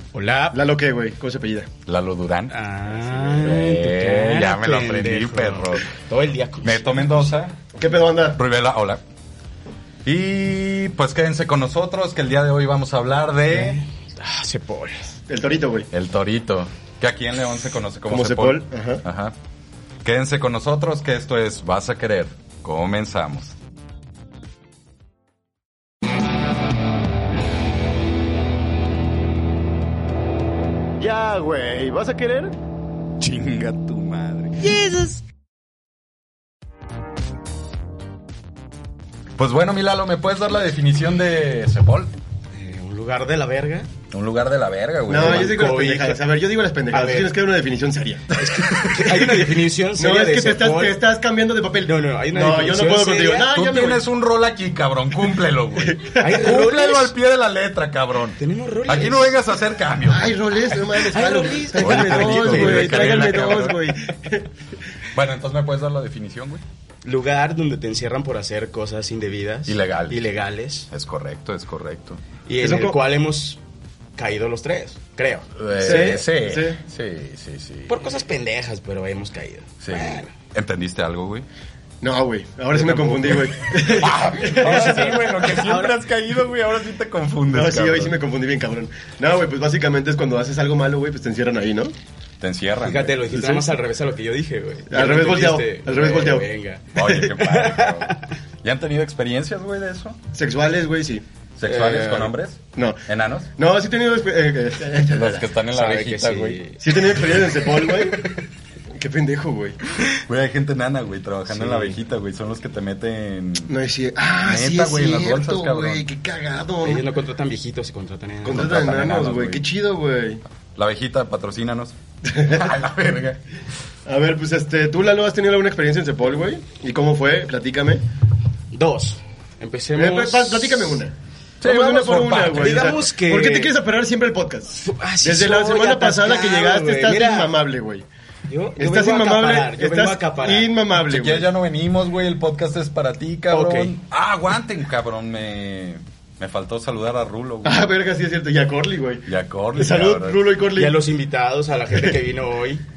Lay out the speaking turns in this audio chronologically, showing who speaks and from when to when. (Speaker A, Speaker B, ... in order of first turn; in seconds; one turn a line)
Speaker A: 0.1-0.6
Speaker B: 0.5-1.7
Speaker C: 1.9-2.5
Speaker A: 2.5-7.2
Speaker C: 3.3-5.9
Speaker C: 6.6-7.5
Speaker B: 7.7-8.4
Speaker C: 8.3-9.0
Speaker C: 10.0-13.8
Speaker A: 13.5-15.2
Speaker B: 15.3-15.9
Speaker C: 15.9-19.3
Speaker B: 18.1-19.0
Speaker C: 20.0-23.5
Speaker B: 31.0-32.5
Speaker C: 33.2-34.7
Speaker B: 34.7-35.0
Speaker C: 39.4-42.1
Speaker A: 42.5-43.9
Speaker C: 44.1-45.6
Speaker B: 45.1-49.4
Speaker A: 45.2-46.2
Speaker A: 46.9-47.3
Speaker A: 48.3-51.0
Speaker B: 50.0-54.0
Speaker A: 51.8-53.5
Speaker C: 53.5-60.3
Speaker A: 56.2-57.1
Speaker A: 58.4-59.3
Speaker B: 60.1-64.5
Speaker A: 61.1-63.4
Speaker C: 61.8-63.9
Speaker C: 65.1-66.6
Speaker A: 67.0-70.9
Speaker C: 69.7-70.2
Speaker C: 70.9-72.2
Speaker A: 72.5-73.6
Speaker B: 72.6-73.0
Speaker A: 74.2-76.1
Speaker C: 75.5-78.0
Speaker B: 75.8-76.8
Speaker A: 77.9-80.3
Speaker C: 79.8-81.5
Speaker B: 82.0-85.2
Speaker A: 82.7-85.9
Speaker C: 83.9-88.1
Speaker B: 87.5-91.9
Speaker C: 92.4-93.6
Speaker A: 92.8-98.3
Speaker B: 94.9-96.4
Speaker C: 96.9-100.2
Speaker B: 100.3-101.2
Speaker C: 101.6-103.5
Speaker A: 101.6-102.3
Speaker B: 103.6-105.5
Speaker C: 105.1-106.6
Speaker A: 105.7-106.8
Speaker B: 106.8-108.3
Speaker B: 109.0-109.8
Speaker C: 110.1-113.7
Speaker A: 111.5-112.0
Speaker B: 113.7-117.0
Speaker C: 114.4-116.0
Speaker A: 116.8-118.7
Speaker B: 118.4-120.4
Speaker C: 118.5-119.6
Speaker C: 120.8-123.4
Speaker B: 122.2-122.7
Speaker B: 124.0-128.0
Speaker A: 128.7-131.0
Speaker B: 129.9-138.1
Speaker C: 131.6-133.0
Speaker A: 132.6-133.7
Speaker A: 134.8-137.5
Speaker A: 138.5-140.7
Speaker B: 138.8-141.5
Speaker C: 141.0-147.9
Speaker A: 143.5-143.9
Speaker B: 147.6-151.0
Speaker C: 149.2-150.4
Speaker A: 150.7-152.8